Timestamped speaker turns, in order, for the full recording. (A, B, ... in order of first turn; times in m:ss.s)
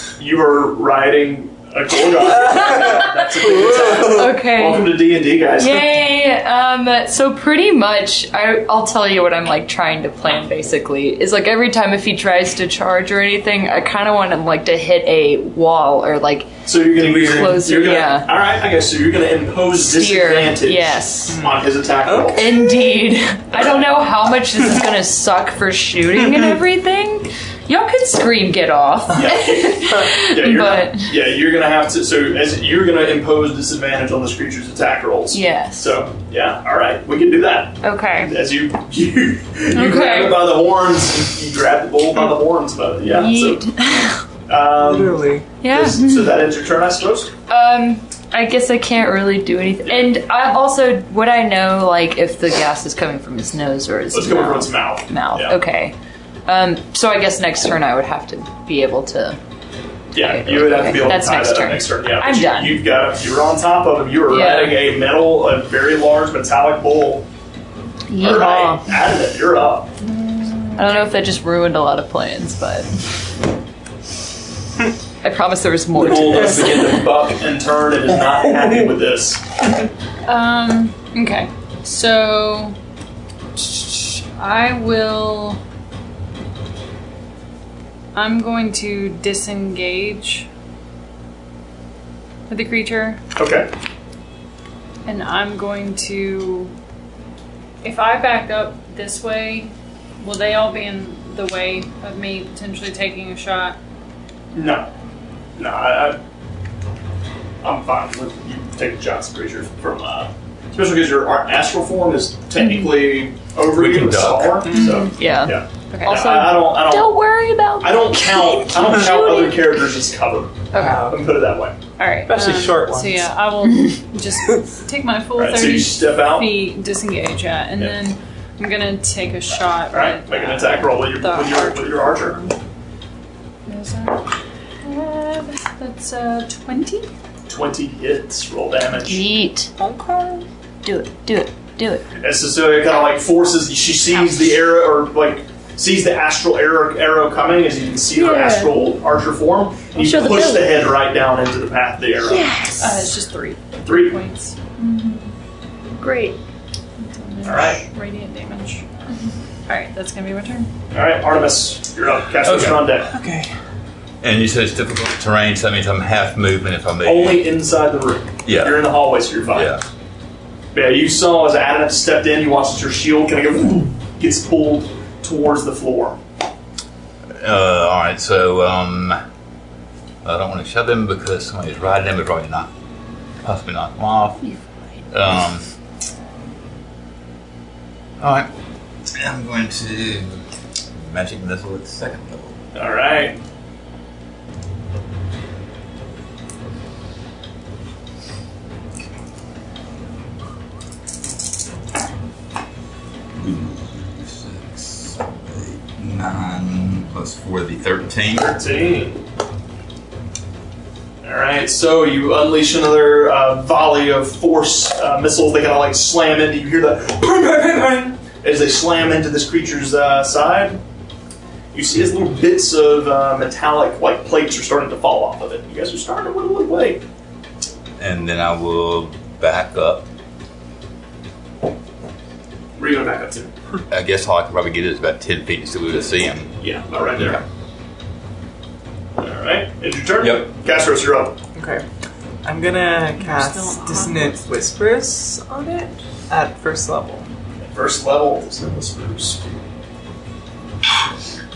0:00.2-0:05.9 A
0:02.3-0:04.4 B
0:04.0-0:18.3 C
0:16.6-0:22.6 A
0:17.0-0:17.5 B
0:19.8-0:21.4 C
0:21.3-0:23.0 B
0:22.3-0:31.1 C
0:23.5-0:23.9 A
0:26.2-0:26.5 B
0:29.1-0:43.6 A
0:35.3-0:35.9 C
0:37.8-0:38.3 C
0:39.7-0:40.5 C
0:43.0-0:44.2 C
0:44.5-0:47.3 A
0:44.8-0:45.5 B
0:45.6-0:46.4 C
0:47.5-0:59.4 C
0:49.8-0:50.1 A
0:54.1-0:55.6 A
1:00.1-1:07.3 A
1:00.1-1:02.8 C
1:04.3-1:04.8 C
1:08.1-1:08.9 C
1:08.2-1:09.9 A
1:10.7-1:12.9 C
1:15.2-1:16.8 C
1:15.9-1:19.4 A
1:16.0-1:16.9 B
1:18.4-1:18.8 B
1:20.2-1:22.8 D
1:23.6-1:25.6 D
1:28.1-1:30.5 D
1:32.5-1:33.2 D
1:33.4-1:33.7 A
1:35.0-1:36.7 D
1:37.8-1:43.8 D
1:44.5-1:44.9 A
1:45.6-1:46.2 A
1:47.6-1:57.3 A
1:53.7-1:54.7 E
1:54.7-1:55.0 B
1:54.7-1:55.1 D
1:54.8-1:59.8 C
1:55.9-1:56.3 D
1:57.8-2:01.8 A
2:00.7-2:01.1 C
2:00.7-2:01.2 B
2:02.0-2:12.5 D
2:02.2-2:03.3 B
2:05.4-2:06.6 A
2:09.9-2:12.4 A
2:13.6-2:14.3 D
2:14.8-2:17.1 D
2:17.5-2:19.2 A
2:19.0-2:19.7 C
2:19.8-2:20.4 B
2:20.8-2:22.0 C
2:22.2-2:32.5 A
2:28.1-2:28.7 C
2:29.9-2:30.8 C
2:32.3-2:33.1 C
2:32.8-2:35.3 D
2:33.8-2:34.2 A
2:36.0-2:36.4 C
2:37.0-2:38.9 D
2:37.4-2:37.8 A
2:39.7-2:40.7 D
2:40.9-2:43.1 A
2:42.4-2:42.9 E
2:43.1-2:43.5 B
2:44.2-2:47.5 E
2:47.0-2:49.8 A
2:48.4-2:49.8 E
2:50.7-2:56.2 A
2:57.4-2:59.2 E
3:00.2-3:02.7 E
3:03.4-3:04.5 E
3:05.1-3:05.6 E
3:08.2-3:08.5 E
3:09.1-3:10.4 E
3:10.9-3:12.6 E
3:12.7-3:13.4 A
3:23.3-3:28.6 E
3:28.4-3:29.2 A
3:31.2-3:40.8 A
3:41.7-3:47.0 A
3:48.0-3:50.1 E
3:52.8-3:53.5 A
3:53.9-3:56.6 E
3:56.6-3:57.4 A
3:59.2-4:01.4 A
4:00.2-4:00.5 E
4:01.5-4:01.8 B
4:02.4-4:07.2 B
4:03.2-4:04.3 D
4:07.6-4:09.5 A